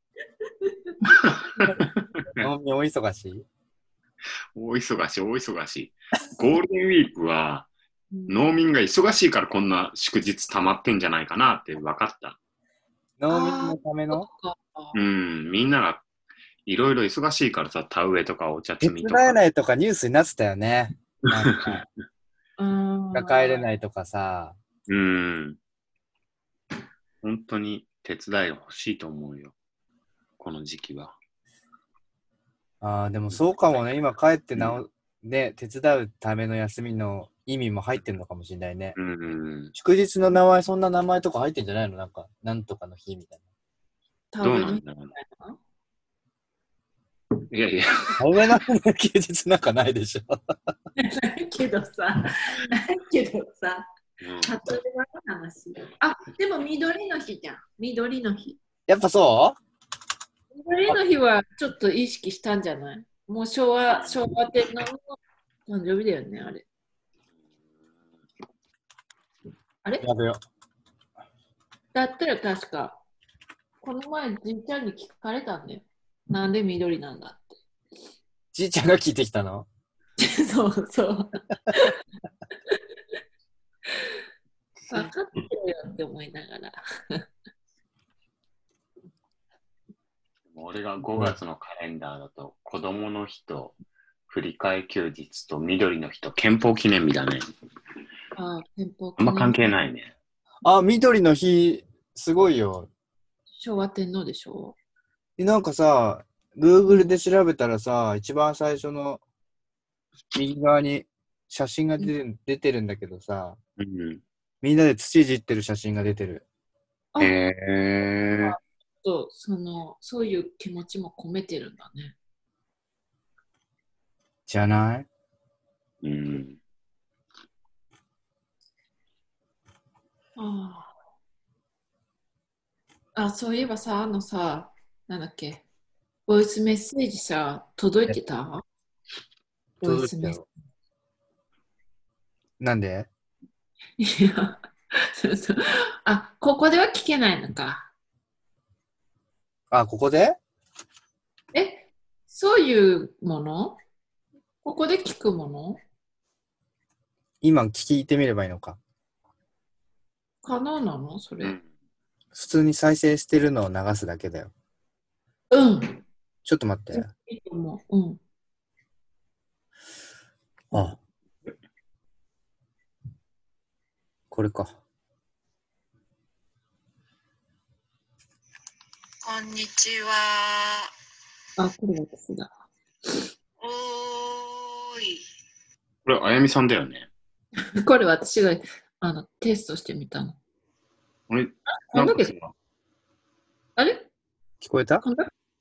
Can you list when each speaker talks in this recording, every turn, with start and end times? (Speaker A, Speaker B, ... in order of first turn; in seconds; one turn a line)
Speaker A: 0.6-1.0
Speaker B: 1.1-2.5
Speaker C: 2.4-3.5
Speaker B: 4.5-7.7
Speaker A: 8.1-8.5
Speaker B: 8.3-12.4
Speaker C: 13.2-14.3
Speaker A: 13.3-15.0
Speaker B: 14.9-16.0
Speaker B: 16.7-19.4
Speaker C: 18.8-21.8
Speaker B: 21.3-21.9
Speaker A: 22.6-23.7
Speaker C: 23.1-24.6
Speaker B: 24.9-25.6
Speaker B: 27.2-29.5
Speaker B: 30.4-31.1
Speaker C: 32.8-39.0
Speaker B: 39.0-39.7
Speaker C: 39.8-43.4
Speaker A: 44.3-45.6
Speaker B: 44.4-45.1
Speaker B: 47.5-48.3
Speaker C: 48.2-50.4
Speaker A: 51.0-53.9
Speaker B: 54.2-54.6
Speaker A: 54.4-58.6
Speaker C: 58.9-59.6
Speaker A: 60.5-65.0
Speaker B: 63.9-64.2
Speaker A: 65.7-66.7
Speaker C: 70.0-70.4
Speaker A: 71.9-73.0
Speaker A: 73.8-77.6
Speaker C: 78.5-79.7
Speaker A: 80.2-82.0
Speaker A: 83.9-84.2
Speaker A: 84.9-87.2
Speaker B: 90.5-93.8
Speaker B: 94.3-97.5
Speaker A: 98.3-99.7
Speaker B: 99.2-100.1
Speaker C: 100.6-102.9
Speaker A: 103.6-104.8
Speaker C: 105.4-109.2
Speaker C: 110.3-113.6
Speaker B: 113.8-114.2
Speaker C: 114.6-116.5
Speaker B: 117.2-118.6
Speaker A: 118.4-122.2
Speaker C: 124.5-125.1
Speaker B: 126.0-126.6
Speaker A: 130.4-130.9
Speaker A: 133.2-135.6
Speaker A: 136.3-138.6
Speaker A: 139.8-140.4
Speaker C: 139.8-140.4
Speaker C: 142.6-143.1
Speaker A: 144.0-147.9
Speaker C: 149.7-150.4
Speaker A: 151.5-153.8
Speaker A: 154.6-155.8
Speaker C: 157.4-158.8
Speaker A: 160.4-161.6
Speaker C: 162.3-164.5
Speaker A: 165.5-166.0
Speaker C: 166.4-167.1
Speaker A: 166.9-168.2
Speaker C: 170.7-171.0
Speaker C: 174.3-174.8
Speaker D: 179.2-180.8
Speaker A: 181.6-182.6
Speaker D: 183.6-185.2
Speaker B: 186.1-187.1
Speaker A: 187.7-190.4
Speaker B: 191.3-192.5
Speaker A: 191.9-192.3
Speaker A: 193.8-194.1
Speaker C: 194.6-195.0
Speaker A: 195.0-195.3